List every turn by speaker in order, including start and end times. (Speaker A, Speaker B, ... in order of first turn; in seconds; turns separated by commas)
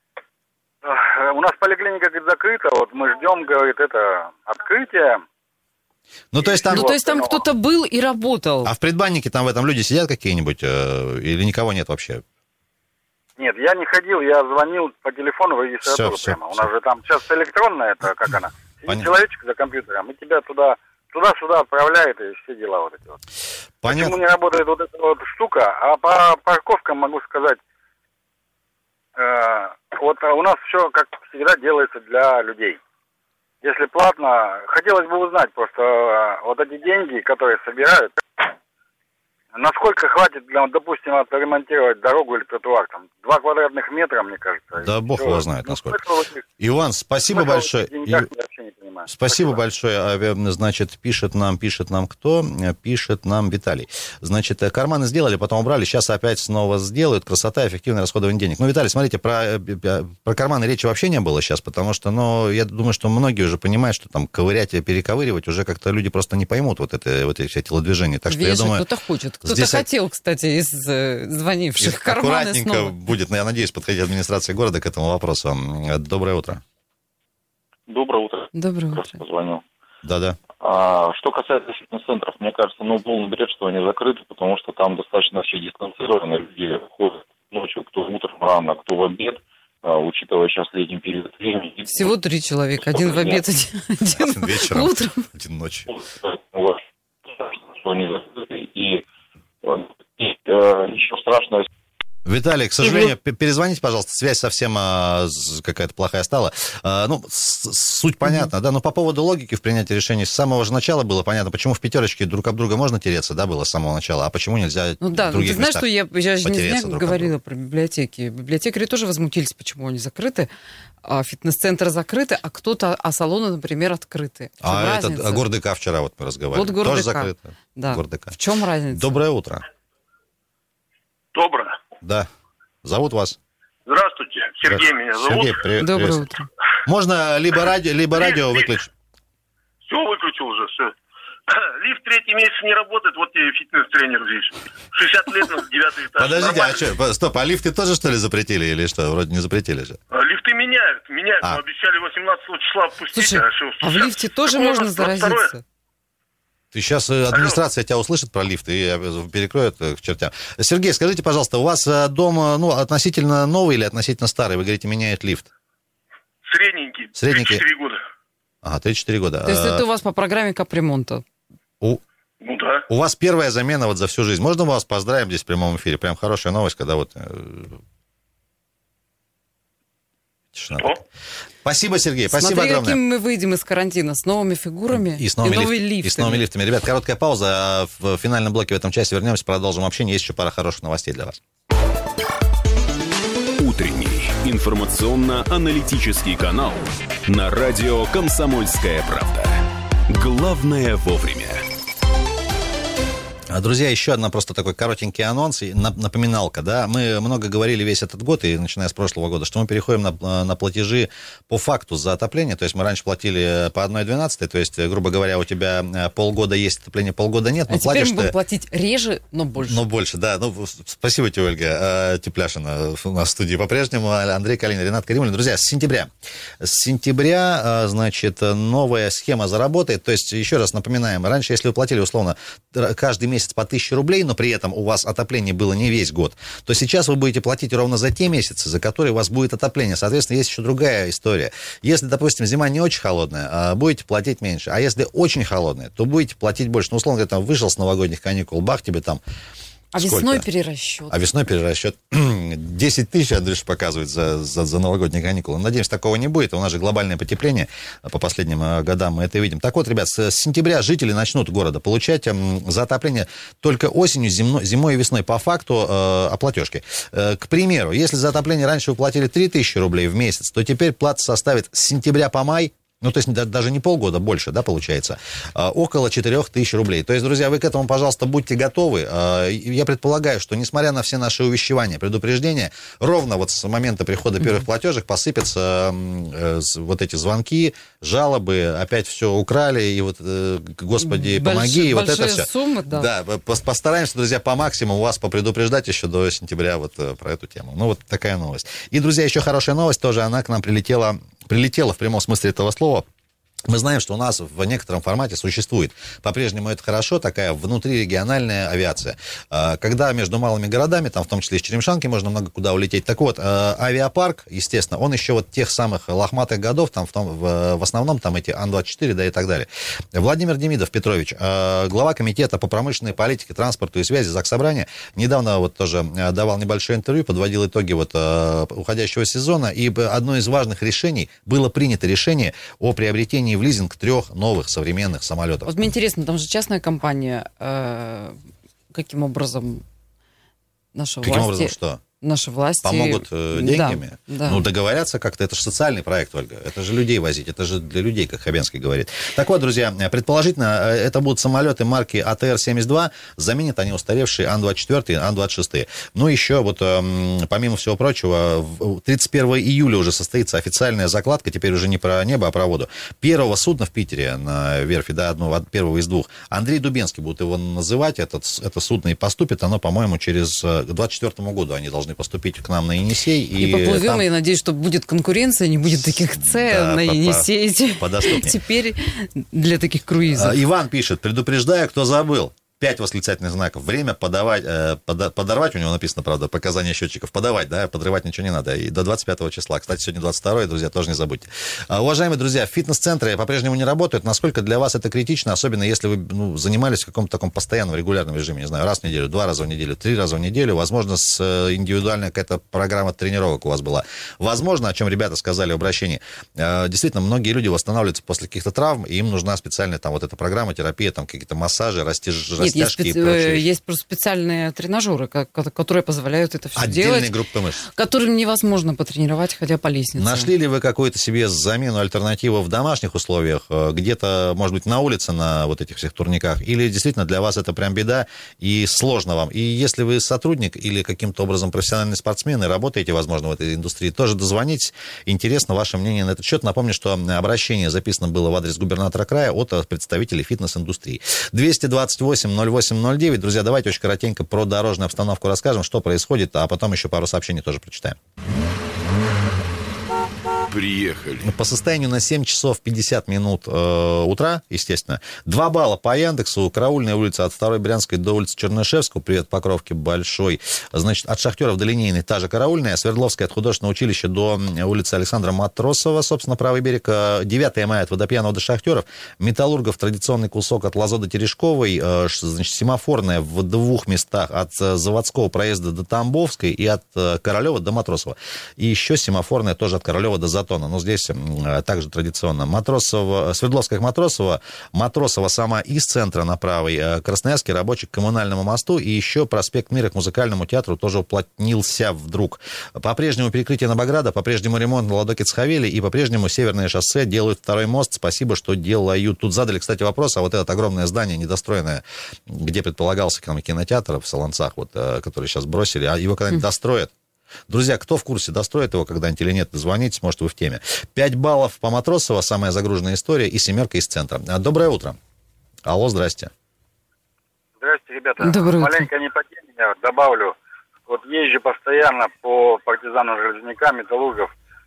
Speaker A: 0.8-5.2, Speaker B: 6.3-6.9, Speaker A: 6.4-7.5, Speaker C: 6.7-8.7, Speaker B: 8.7-12.2, Speaker A: 13.4-23.2, Speaker B: 15.8-16.7, Speaker B: 23.8-24.2, Speaker A: 23.9-27.6, Speaker A: 29.2-32.8, Speaker A: 33.6-38.5, Speaker A: 39.5-46.4, Speaker B: 44.8-46.0, Speaker B: 46.6-48.3, Speaker A: 47.3-49.6, Speaker B: 49.1-68.8, Speaker C: 68.3-73.0, Speaker B: 69.4-69.9, Speaker B: 71.8-76.6, Speaker D: 77.9-79.6, Speaker C: 78.5-79.2, Speaker B: 80.0-80.4, Speaker D: 80.6-92.2, Speaker C: 91.9-95.3, Speaker D: 92.9-93.4, Speaker B: 94.2-95.9, Speaker D: 95.9-99.0, Speaker D: 99.6-101.7, Speaker B: 102.2-117.3, Speaker C: 115.0-120.5, Speaker C: 121.0-125.5, Speaker B: 124.6-128.4, Speaker C: 126.5-129.2, Speaker B: 128.9-129.6, Speaker E: 131.3-131.8, Speaker B: 132.0-132.3, Speaker B: 132.8-133.4, Speaker E: 133.9-135.6, Speaker B: 134.6-136.3, Speaker C: 135.8-136.5, Speaker B: 136.8-138.9, Speaker E: 138.2-138.6, Speaker E: 139.9-140.9, Speaker E: 141.5-146.9, Speaker B: 146.1-150.0, Speaker E: 150.1-155.5, Speaker C: 153.1-155.6, Speaker B: 156.7-165.5, Speaker E: 157.3-157.6, Speaker E: 166.5-168.0, Speaker B: 167.2-167.6, Speaker B: 168.6-169.8, Speaker C: 169.4-171.2, Speaker E: 172.4-172.8, Speaker B: 172.9-177.8, Speaker B: 180.5-181.0, Speaker B: 181.6-183.0, Speaker C: 182.3-186.4, Speaker B: 184.9-191.4, Speaker F: 193.6-199.6, Speaker F: 200.1-201.6, Speaker B: 203.5-218.4, Speaker C: 217.7-219.8, Speaker B: 219.6-226.1, Speaker B: 226.6-249.2, Speaker C: 249.9-251.2, Speaker B: 250.0-250.4, Speaker B: 251.1-303.1, Speaker C: 291.0-293.1, Speaker B: 303.7-335.7, Speaker C: 335.7-338.4, Speaker C: 338.9-339.8, Speaker C: 340.9-344.6, Speaker B: 341.2-342.0, Speaker B: 342.8-374.3, Speaker C: 373.6-380.6, Speaker B: 376.2-378.6, Speaker B: 380.3-413.7, Speaker C: 412.6-417.3, Speaker B: 416.8-417.9, Speaker C: 417.9-420.5, Speaker B: 420.2-448.2, Speaker F: 450.7-451.5, Speaker B: 451.4-507.1, Speaker B: 507.7-515.2, Speaker B: 515.9-516.5, Speaker A: 517.8-520.5, Speaker C: 518.4-519.1, Speaker A: 521.1-524.5